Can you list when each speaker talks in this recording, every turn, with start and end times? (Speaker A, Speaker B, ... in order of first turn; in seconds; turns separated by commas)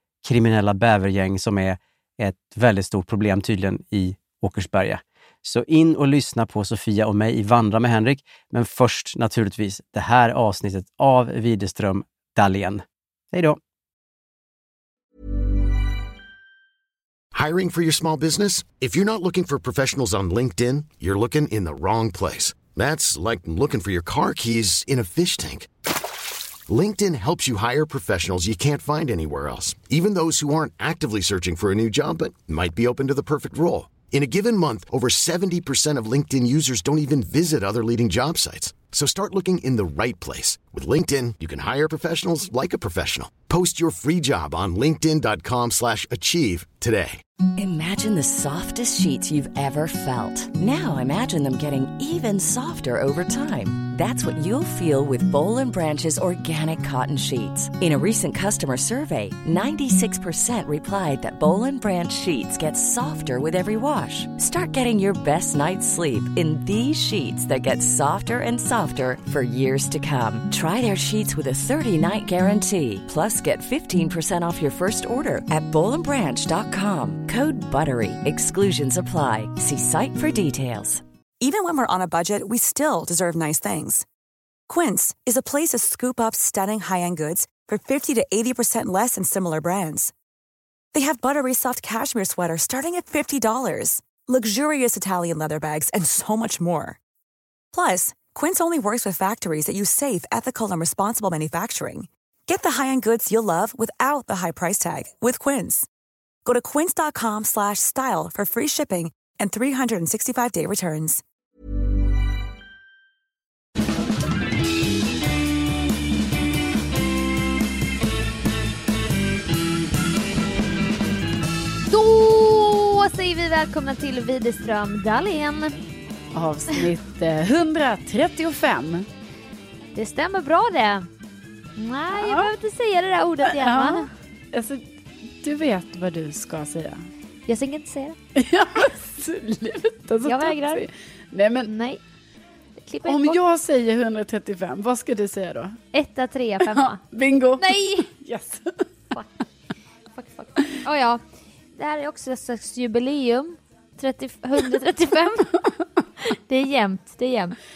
Speaker A: 0.2-13.6, Speaker B: 17.3-25.7, Speaker B: 26.7-47.2, Speaker C: 47.6-81.0, Speaker D: 81.4-84.0, Speaker D: 84.7-90.1, Speaker D: 90.9-97.0, Speaker D: 97.7-105.9, Speaker D: 106.4-111.2, Speaker E: 121.9-125.8, Speaker F: 126.3-129.1, Speaker E: 129.9-131.1, Speaker E: 131.8-134.1, Speaker F: 132.1-132.5, Speaker F: 133.4-134.8, Speaker F: 135.4-137.1, Speaker E: 137.5-138.2, Speaker F: 138.3-141.7, Speaker E: 140.2-140.8, Speaker E: 141.7-142.0, Speaker E: 142.8-143.4, Speaker F: 143.0-145.8, Speaker E: 145.9-147.0, Speaker F: 146.6-148.8, Speaker E: 147.6-148.1, Speaker E: 150.1-151.2, Speaker E: 151.8-155.5, Speaker E: 156.2-157.6